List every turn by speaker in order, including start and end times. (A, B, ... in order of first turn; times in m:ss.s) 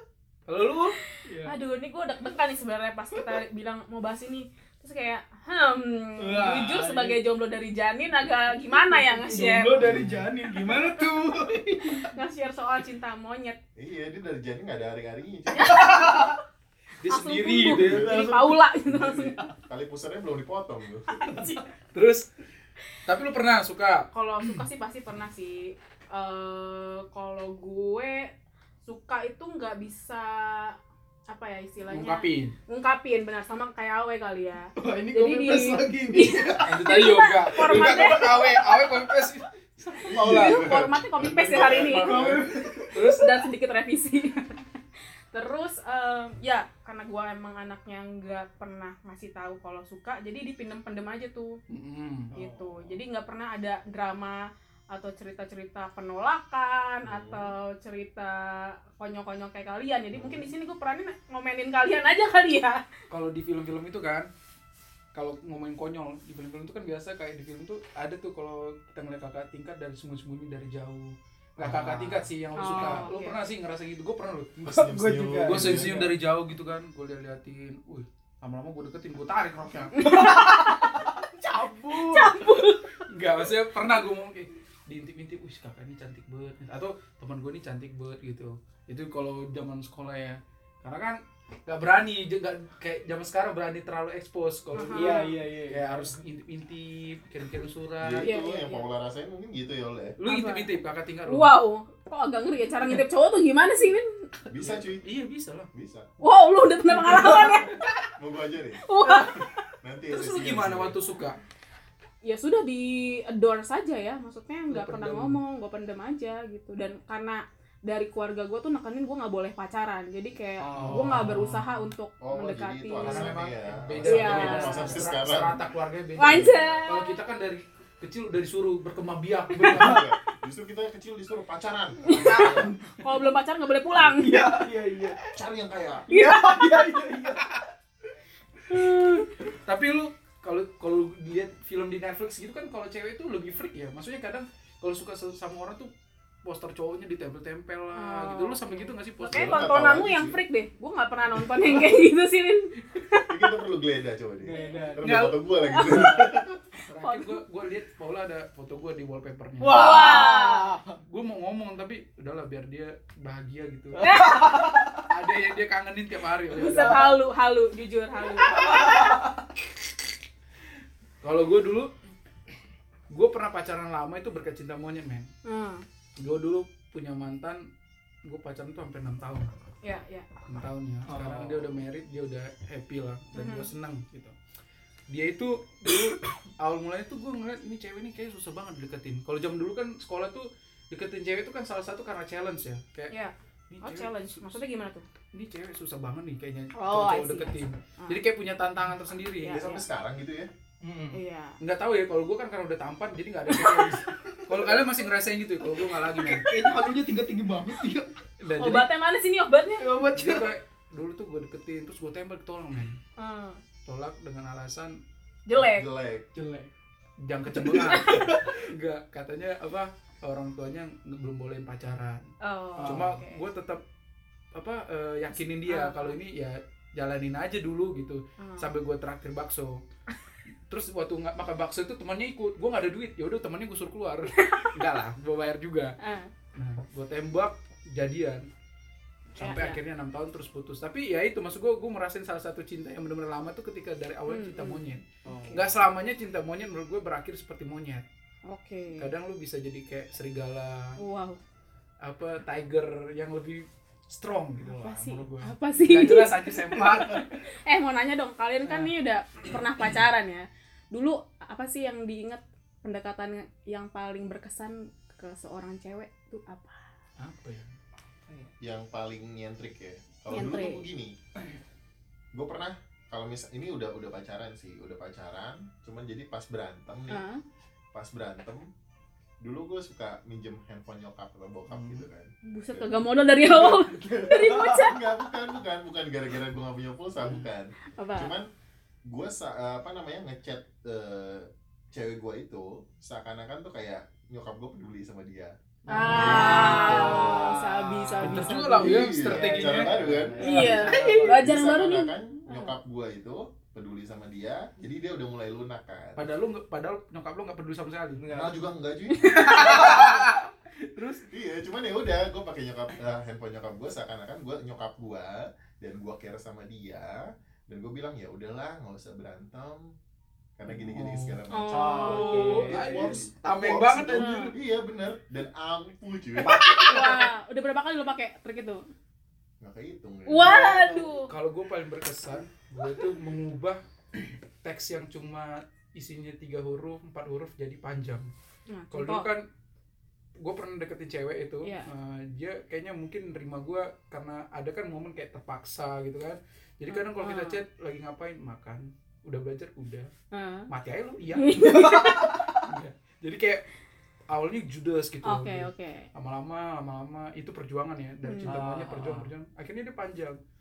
0:00.5-0:01.0 A
0:01.3-0:01.5 B
0:01.4-0:09.8 C
0:06.2-0:07.2 B
0:08.8-0:12.1 B
0:09.8-0:10.3 A
0:10.6-0:11.0 C
0:11.8-0:13.6 C
0:13.8-0:15.9 D
0:15.5-0:16.3 C
0:15.6-0:16.3 B
0:17.0-0:18.1 A
0:17.0-0:19.4 C
0:17.7-0:21.1 D
0:21.1-0:21.6 C
0:21.9-0:22.3 A
0:23.1-0:24.6 A
0:24.1-0:28.3 C
0:28.8-0:30.8 C
0:31.3-0:38.7 C
0:31.9-0:32.5 A
0:34.8-0:36.8 B
0:36.6-0:40.7 A
0:37.6-0:38.8 B
0:40.1-0:42.9 D
0:40.2-0:42.3 C
0:41.9-0:43.2 B
0:42.9-0:43.3 A
0:43.1-0:44.6 C
0:45.3-0:51.6 C
0:51.7-0:52.3 A
0:52.3-0:52.8 B
0:52.3-1:02.8 C
0:57.0-0:57.5 D
1:00.1-1:00.5 D
1:03.1-1:04.3 A
1:05.1-1:14.6 A
1:11.6-1:13.1 B
1:12.6-1:13.4 C
1:14.6-1:16.0 D
1:14.6-1:16.1 B
1:15.4-1:20.4 A
1:20.0-1:20.7 C
1:20.0-1:22.3 B
1:21.6-1:22.4 A
1:22.0-1:22.8 C
1:23.1-1:38.3 A
1:34.7-1:35.4 C
1:34.8-1:36.0 B
1:38.0-1:40.2 D
1:38.2-1:38.9 C
1:40.2-1:41.5 A
1:40.2-1:40.7 C
1:41.3-1:44.1 C
1:44.5-1:45.0 D
1:44.5-1:45.7 A
1:45.7-1:46.1 D
1:46.2-1:47.8 C
1:47.0-1:47.6 A
1:48.2-1:48.8 D
1:48.8-1:49.5 C
1:49.8-1:51.0 D
1:50.1-1:51.4 A
1:52.2-2:03.4 C
1:54.7-1:55.4 A
2:00.6-2:01.3 B
2:00.7-2:01.9 A
2:00.9-2:01.2 D
2:02.2-2:05.6 D
2:03.0-2:10.0 A
2:04.0-2:05.0 C
2:06.2-2:07.2 C
2:06.3-2:06.9 D
2:09.6-2:12.7 D
2:09.6-2:10.0 B
2:12.0-2:14.5 C
2:12.2-2:12.7 A
2:12.3-2:12.7 B
2:14.2-2:15.2 B
2:15.2-2:16.1 D
2:16.1-2:16.7 C
2:16.1-2:17.5 B
2:18.7-2:19.2 C
2:19.5-2:25.9 A
2:26.4-2:29.5 A
2:27.9-2:33.4 C
2:29.3-2:30.4 D
2:33.3-2:36.5 D
2:34.4-2:35.1 B
2:34.6-2:34.9 C
2:35.0-2:35.9 A
2:35.5-2:36.2 C
2:36.9-2:40.2 A
2:37.0-2:37.4 C
2:39.6-2:41.0 B
2:39.7-2:40.8 C
2:41.0-2:44.0 A
2:44.0-2:45.0 B
2:44.0-2:44.6 C
2:45.0-2:47.2 A
2:46.5-2:48.9 C
2:46.8-2:47.1 B
2:48.4-2:49.4 B
2:51.2-2:51.9 A
2:53.1-2:55.3 A
2:55.4-2:55.8 C
2:56.2-2:57.7 A
2:58.2-2:59.5 A
2:59.8-3:00.3 C
3:00.5-3:04.3 A
3:01.0-3:01.8 B
3:03.4-3:03.7 C
3:05.1-3:13.1 A
3:13.1-3:15.0 C
3:13.7-3:14.6 A
3:15.3-3:19.6 A
3:16.8-3:18.2 C
3:19.4-3:19.8 C
3:19.5-3:20.5 D
3:20.8-3:21.2 B
3:21.1-3:21.6 C
3:21.6-3:26.5 A
3:23.5-3:24.7 B
3:26.0-3:28.1 B
3:28.4-3:28.9 A
3:28.6-3:29.9 C
3:29.8-3:30.5 B
3:30.2-3:33.0 A
3:33.2-3:33.6 C
3:33.9-3:35.0 A
3:35.5-3:35.9 C
3:35.6-3:36.3 D
3:36.3-3:36.7 B
3:37.2-3:42.3 A
3:37.5-3:38.5 B
3:37.8-3:38.3 C
3:42.4-3:43.4 C
3:42.8-3:43.2 B
3:42.8-3:43.8 A
3:44.6-3:49.8 A
3:45.6-3:46.2 C
3:48.4-3:48.8 C
3:50.7-3:56.0 A
3:54.4-3:54.7 C
3:56.0-3:56.3 C
3:56.6-3:58.5 A
3:59.4-4:08.0 A
3:59.4-3:59.8 C
4:04.3-4:04.8 C
4:05.3-4:05.8 B
4:08.5-4:09.1 C
4:09.0-4:11.0 A
4:11.0-4:11.4 C
4:12.0-4:17.4 A
4:14.6-4:16.5 C
4:16.7-4:17.0 B
4:17.1-4:26.8 C
4:18.6-4:18.9 A
4:19.5-4:19.8 A
4:27.2-4:27.7 A
4:28.6-4:31.2 D
4:30.3-4:30.9 C
4:32.3-4:37.2 D
4:37.1-4:37.4 C
4:37.9-4:38.7 D
4:39.4-4:43.1 D
4:41.7-4:42.1 A
4:42.5-4:45.0 C
4:43.5-4:44.2 B
4:44.2-4:48.5 D
4:48.0-4:48.4 C
4:49.1-4:55.6 D
4:55.9-4:58.3 B
4:55.9-4:58.9 C
4:56.0-4:57.3 A
4:56.1-4:57.6 D
4:58.2-5:00.5 D
4:58.2-5:01.2 A
4:59.2-5:01.4 B
5:00.4-5:02.7 C
5:01.1-5:06.3 D
5:06.2-5:08.2 A
5:08.2-5:08.6 B
5:08.3-5:09.4 D
5:09.3-5:11.2 A
5:09.4-5:10.0 C
5:09.6-5:10.1 B
5:11.3-5:19.9 D
5:20.6-5:26.6 D
5:20.7-5:21.4 A
5:21.5-5:22.6 C
5:21.7-5:23.3 B
5:22.0-5:24.3 A
5:24.0-5:24.6 C
5:26.4-5:27.3 B
5:26.6-5:28.8 C
5:29.6-5:31.1 D
5:30.3-5:31.3 C
5:31.2-5:33.8 A
5:34.6-5:38.3 A
5:38.7-5:39.3 C
5:38.9-5:39.4 A
5:40.4-5:50.1 A
5:46.9-5:47.6 C
5:50.3-5:50.7 C
5:50.7-5:53.6 A
5:51.3-5:52.4 C
5:51.6-5:52.6 B
5:54.3-6:00.4 A
5:55.2-5:56.1 C
5:58.2-5:58.5 C
5:58.4-5:59.3 B